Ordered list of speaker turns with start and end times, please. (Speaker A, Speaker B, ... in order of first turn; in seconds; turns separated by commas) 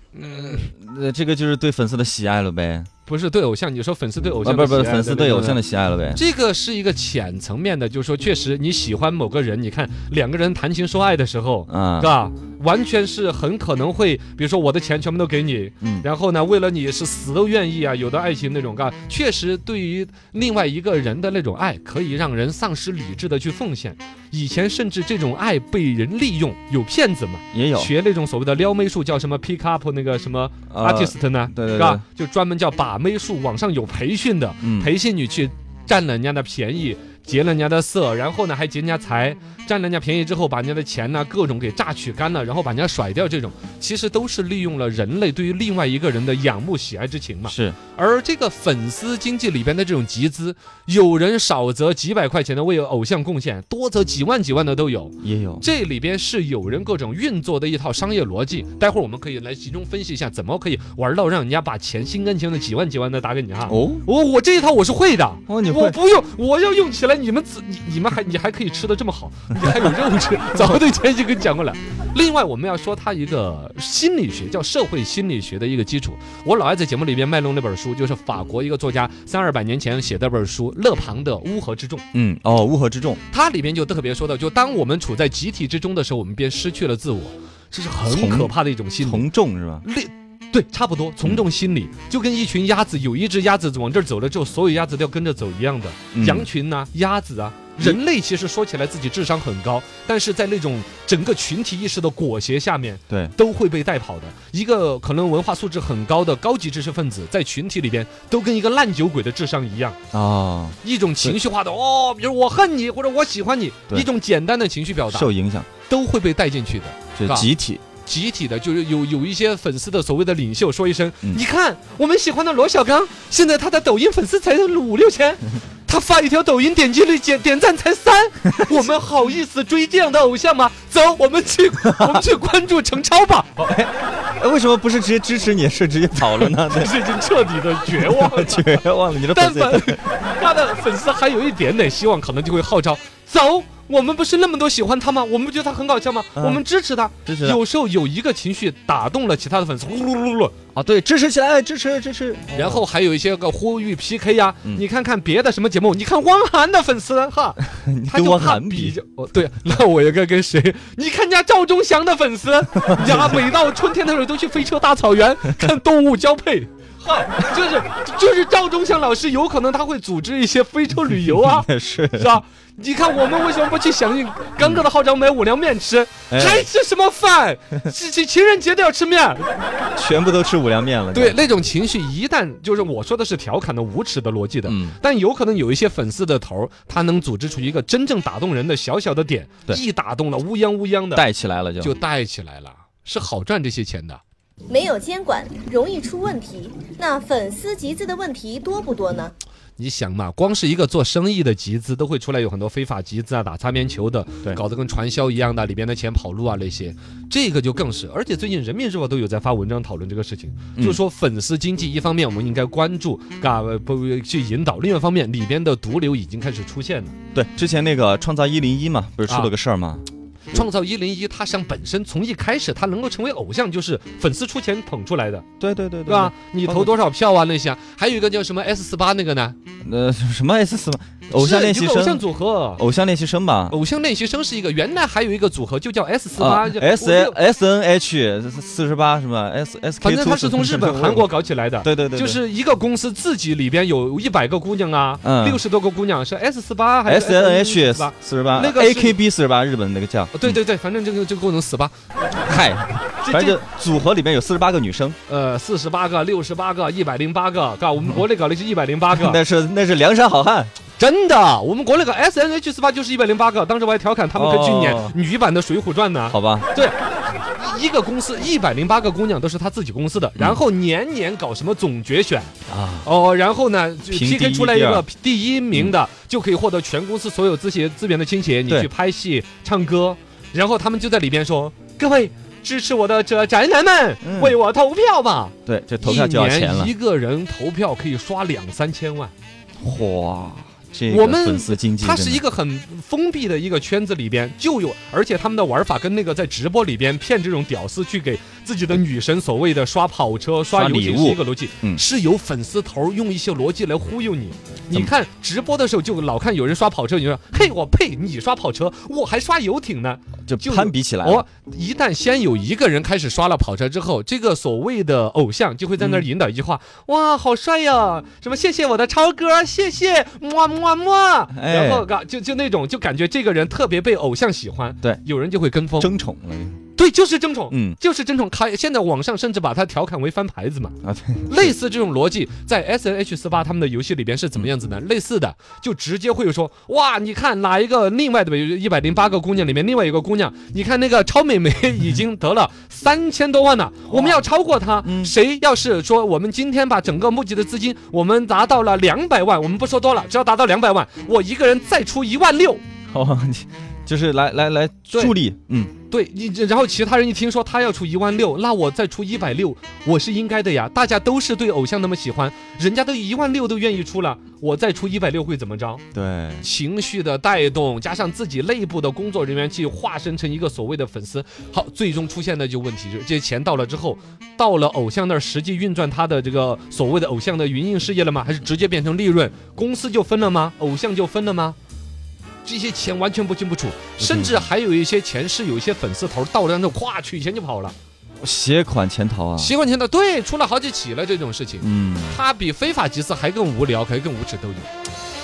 Speaker A: 0.2-0.7, Speaker B: 0.2-2.9, Speaker A: 3.1-5.6, Speaker B: 4.4-6.2, Speaker A: 6.1-82.0, Speaker B: 11.7-12.1, Speaker B: 15.8-16.1, Speaker B: 27.5-27.9, Speaker B: 30.7-32.0, Speaker B: 34.6-34.9, Speaker B: 47.5-47.8, Speaker B: 55.2-55.7, Speaker B: 63.7-64.0, Speaker B: 65.5-66.0, Speaker B: 82.1-83.2, Speaker A: 83.3-89.3, Speaker B: 88.0-89.8, Speaker A: 89.8-110.0, Speaker B: 96.1-96.5, Speaker B: 110.1-111.4, Speaker A: 110.8-115.3, Speaker B: 115.1-115.7, Speaker A: 115.8-117.5, Speaker B: 117.2-117.8, Speaker A: 118.0-133.7, Speaker B: 131.8-132.2, Speaker B: 133.6-137.0, Speaker A: 136.2-150.5, Speaker B: 137.9-140.1, Speaker B: 146.4-146.6, Speaker B: 147.2-147.6, Speaker B: 150.8-152.8, Speaker A: 152.5-179.5, Speaker B: 157.7-159.0, Speaker B: 162.8-163.4, Speaker B: 171.2-172.4, Speaker B: 176.3-176.7, Speaker B: 179.9-181.4, Speaker A: 181.1-191.2, Speaker B: 184.7-185.0, Speaker B: 191.1-191.9, Speaker A: 191.8-194.2, Speaker C: 194.7-199.3, Speaker A: 199.8-217.2, Speaker B: 217.3-220.6, Speaker A: 219.3-219.5, Speaker A: 220.5-225.4, Speaker B: 225.6-226.9, Speaker A: 226.1-229.6, Speaker B: 229.8-233.8, Speaker A: 231.3-232.8, Speaker A: 233.7-237.3, Speaker B: 236.4-242.4, Speaker A: 240.0-249.2, Speaker B: 245.2-245.6, Speaker B: 247.1-250.6, Speaker A: 250.3-251.9, Speaker B: 252.4-255.2, Speaker A: 253.2-253.6, Speaker A: 255.3-259.4, Speaker B: 259.1-260.7, Speaker A: 261.0-267.0, Speaker B: 264.3-265.2, Speaker B: 266.3-266.7, Speaker A: 267.5-289.3, Speaker B: 272.7-273.1, Speaker B: 274.1-275.1, Speaker B: 284.2-284.6, Speaker B: 285.7-286.9, Speaker B: 289.8-292.4, Speaker A: 291.1-326.1, Speaker B: 300.7-302.0, Speaker B: 310.5-311.4, Speaker B: 316.0-316.3, Speaker B: 321.5-322.1, Speaker B: 326.0-326.8, Speaker A: 326.9-331.0, Speaker B: 327.7-328.0, Speaker B: 331.0-331.7, Speaker A: 331.5-352.8, Speaker B: 344.1-344.4, Speaker B: 345.0-345.3, Speaker B: 353.1-355.9, Speaker A: 356.1-366.0, Speaker B: 366.1-366.7, Speaker A: 366.6-381.8, Speaker A: 382.6-387.9, Speaker B: 384.2-384.7, Speaker B: 388.4-389.7, Speaker A: 389.6-394.9, Speaker B: 391.8-392.4